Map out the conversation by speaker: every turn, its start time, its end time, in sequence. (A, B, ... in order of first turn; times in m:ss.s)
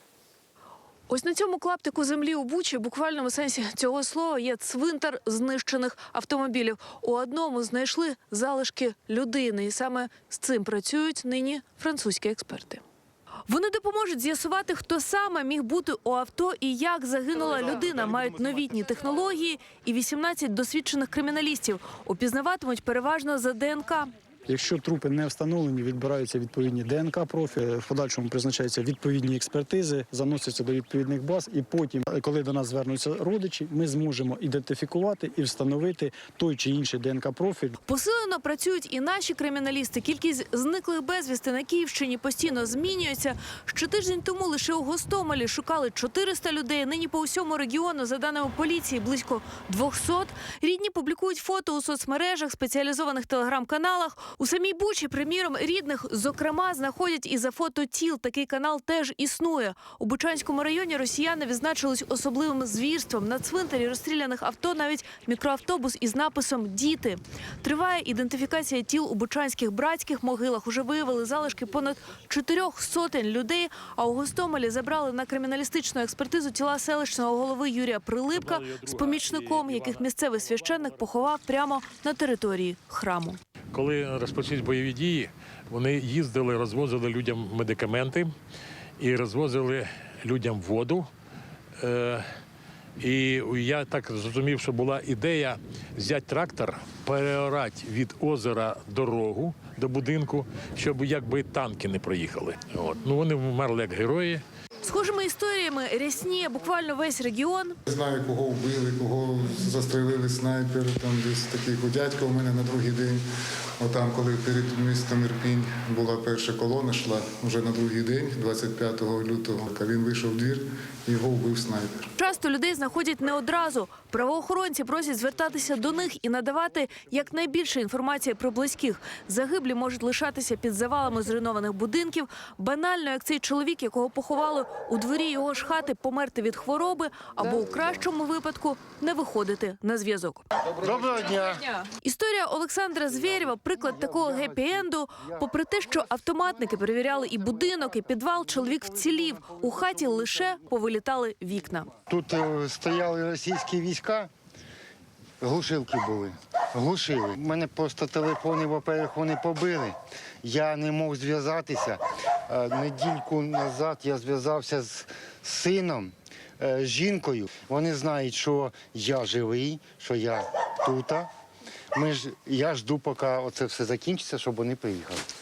0:01.1-0:12.8 A
0:13.5-0:24.1 A
0:24.5-0:37.8 B
0:37.8-1:23.4 A
1:18.3-1:21.2 C
1:23.7-1:28.3 C
1:29.0-1:31.1 C
1:31.8-1:32.2 C
1:33.0-1:44.4 C
1:44.8-1:47.8 A
1:47.8-1:53.2 D
1:53.8-2:02.1 D
2:02.2-2:20.4 A
2:20.7-2:21.7 E
2:21.9-2:31.9 A
2:23.1-2:25.5 E
2:26.0-2:30.3 E
2:32.1-2:34.3 E
2:35.4-2:51.3 E
2:51.9-2:55.2 E